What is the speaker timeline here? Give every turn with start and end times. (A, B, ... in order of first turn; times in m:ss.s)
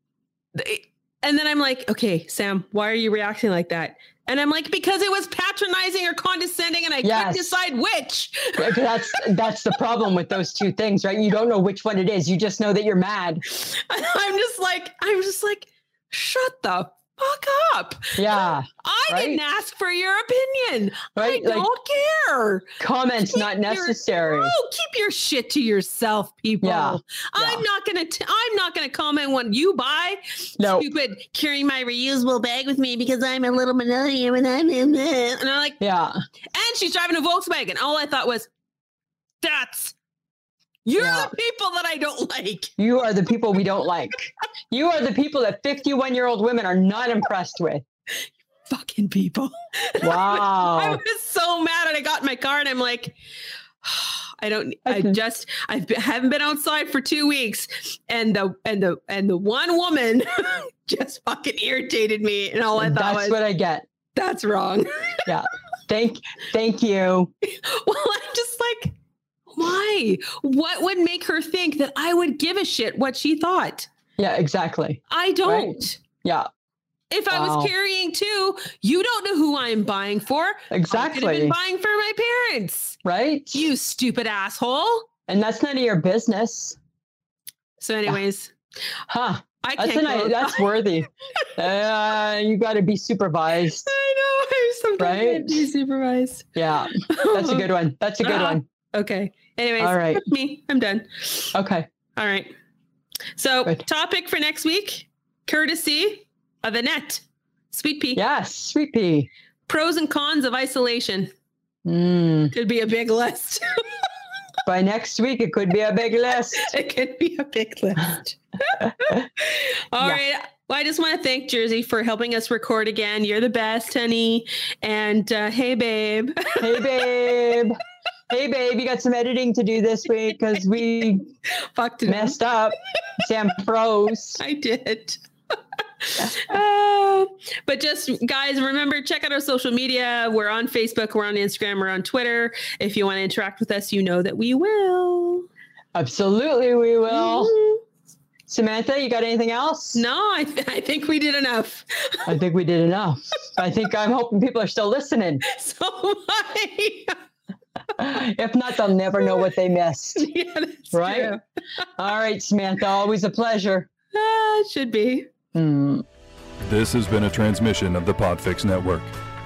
0:00.5-0:09.4 A
0:07.0-0:07.6 B
0:08.6-0:13.4 B
0:13.5-0:35.8 A
0:18.2-0:19.4 B
0:21.2-0:21.7 B
0:22.8-0:24.5 B
0:26.6-0:27.6 B
0:30.6-0:30.9 B
0:35.8-0:36.2 B
0:36.5-0:38.5 A
0:39.4-0:39.9 A
0:40.8-0:42.7 A
0:41.0-0:41.3 B
0:42.8-0:47.8 B
0:48.7-0:53.2 A
0:50.0-0:51.0 B
0:53.8-1:03.4 A
0:54.8-0:55.2 B
1:02.8-1:03.8 B
1:04.1-1:05.2 A
1:05.2-1:07.3 B
1:07.4-1:08.9 A
1:09.5-1:13.9 A
1:14.2-1:16.5 B
1:15.1-1:16.0 A
1:17.1-1:23.0 A
1:17.3-1:17.7 B
1:20.7-1:21.5 B
1:23.0-1:23.6 B
1:23.5-1:25.1 A
1:25.3-1:26.8 B
1:27.8-1:28.5 A
1:29.1-1:33.9 B
1:29.6-1:30.8 A
1:33.8-1:36.5 A
1:35.0-1:35.6 B
1:36.6-1:38.6 B
1:37.1-1:37.7 A
1:38.2-1:41.5 A
1:39.8-1:40.2 B
1:41.5-1:41.9 B
1:42.2-1:42.5 A
1:43.4-1:48.2 A
1:48.1-1:49.3 B
1:49.7-1:51.3 A
1:51.8-1:52.5 B
1:52.5-1:53.7 A
1:54.6-1:56.7 B
1:56.6-2:07.4 A
2:06.6-2:07.8 B
2:08.3-2:11.3 B
2:11.6-2:12.4 A
2:12.0-2:14.4 B
2:14.4-2:25.5 A
2:25.9-2:27.5 B
2:27.1-2:27.8 A
2:28.5-2:30.0 B
2:29.9-2:32.4 A
2:32.2-2:35.4 B
2:35.4-2:37.2 A
2:38.0-2:40.3 B
2:40.1-2:41.4 A
2:40.9-2:41.4 B
2:42.0-2:43.9 B
2:44.1-2:45.3 A
2:45.5-2:46.0 B
2:46.6-2:49.1 C